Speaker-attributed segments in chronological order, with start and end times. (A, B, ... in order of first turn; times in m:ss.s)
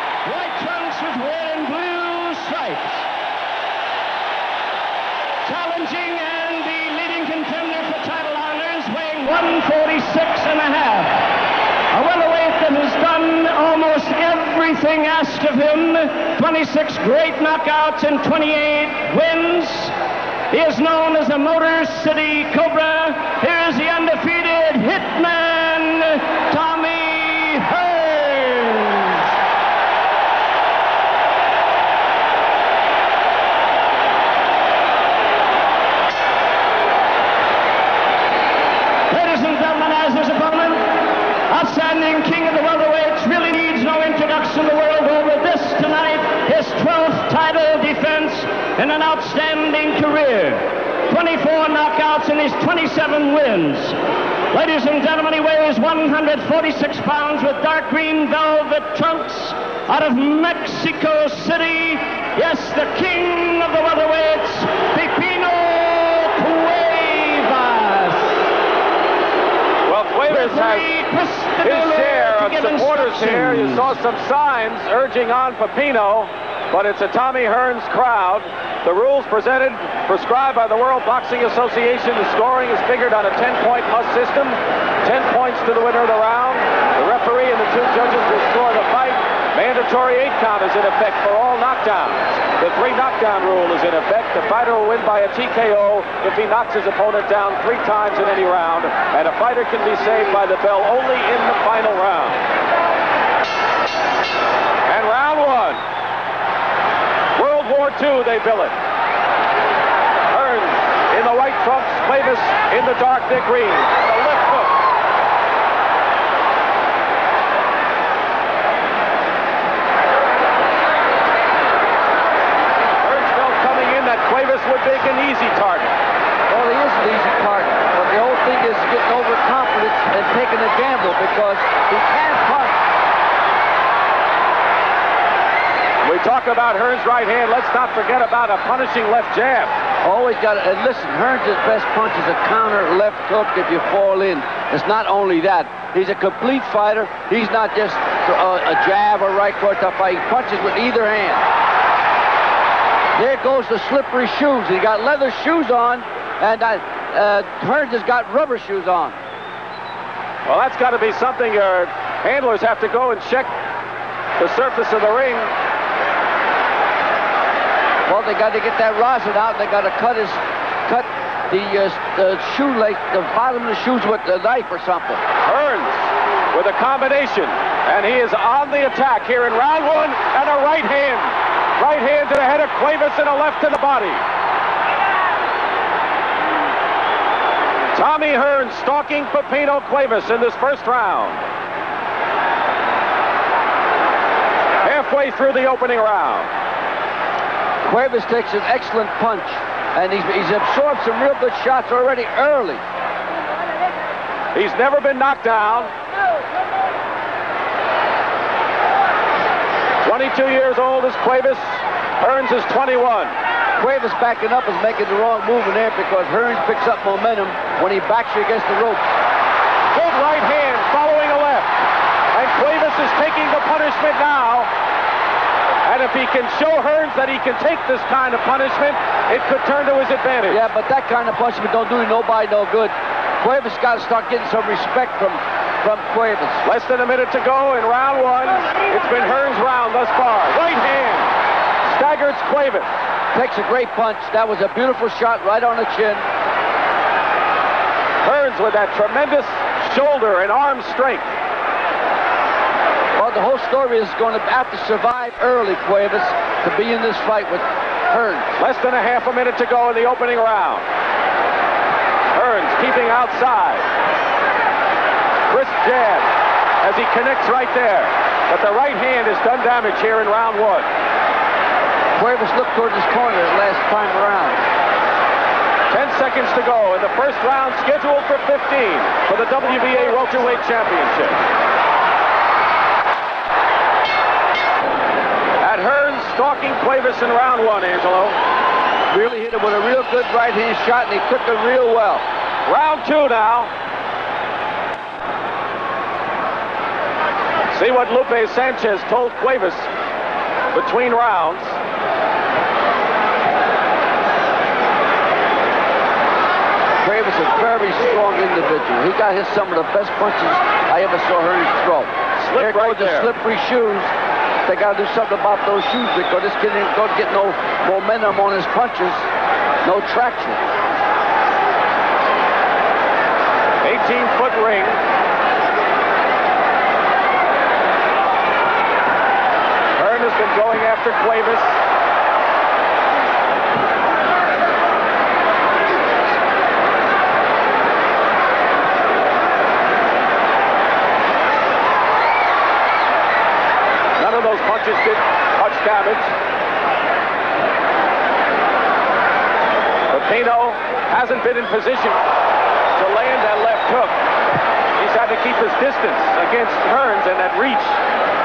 0:00.2-0:03.1 A
0:05.4-0:19.9 A
0:20.5-0:29.3 A
0:39.1-0:54.0 A
0:54.5-1:08.4 A
1:09.8-1:10.9 B
1:10.2-1:14.0 A
1:11.6-1:42.4 B
1:44.8-1:45.8 B
1:47.3-1:48.7 B
1:50.3-1:54.8 B
2:03.0-2:05.9 B
2:06.5-2:12.8 C
2:16.0-2:19.8 B
2:20.0-2:31.4 C
2:33.2-2:39.2 C
2:40.4-2:43.5 B
2:44.4-2:45.5 B
2:48.1-2:55.2 C
2:55.4-3:04.2 B
3:07.9-3:11.4 B
3:14.8-3:16.5 B
3:17.8-3:22.8 C
3:24.5-3:25.9 B
3:30.0-3:33.3 B
3:33.8-3:39.0 C
3:39.9-3:41.7 B
3:42.3-3:44.7 B
3:45.8-3:50.7 B
3:50.5-3:56.6 C
3:56.6-4:01.3 B
4:01.8-4:02.9 B
4:03.3-4:06.2 C
4:08.2-4:11.3 B
4:13.2-4:18.6 C
4:18.6-4:20.9 B
4:22.3-4:23.8 B
4:25.5-4:26.3 B
4:26.8-4:30.9 B
4:32.2-4:34.6 C
4:35.9-4:41.4 B
4:45.6-4:48.4 B
4:49.1-4:52.2 C
4:52.6-4:53.7 B
4:57.7-4:59.9 B
5:00.7-5:01.8 B
5:07.0-5:14.1 C
5:12.4-5:13.3 B
5:14.6-5:19.3 C
5:19.8-5:20.6 C
5:23.8-5:25.0 B
5:30.0-5:31.8 B
5:44.2-5:46.3 B
5:50.1-5:52.2 B
5:52.9-5:54.2 B
5:54.9-5:58.0 B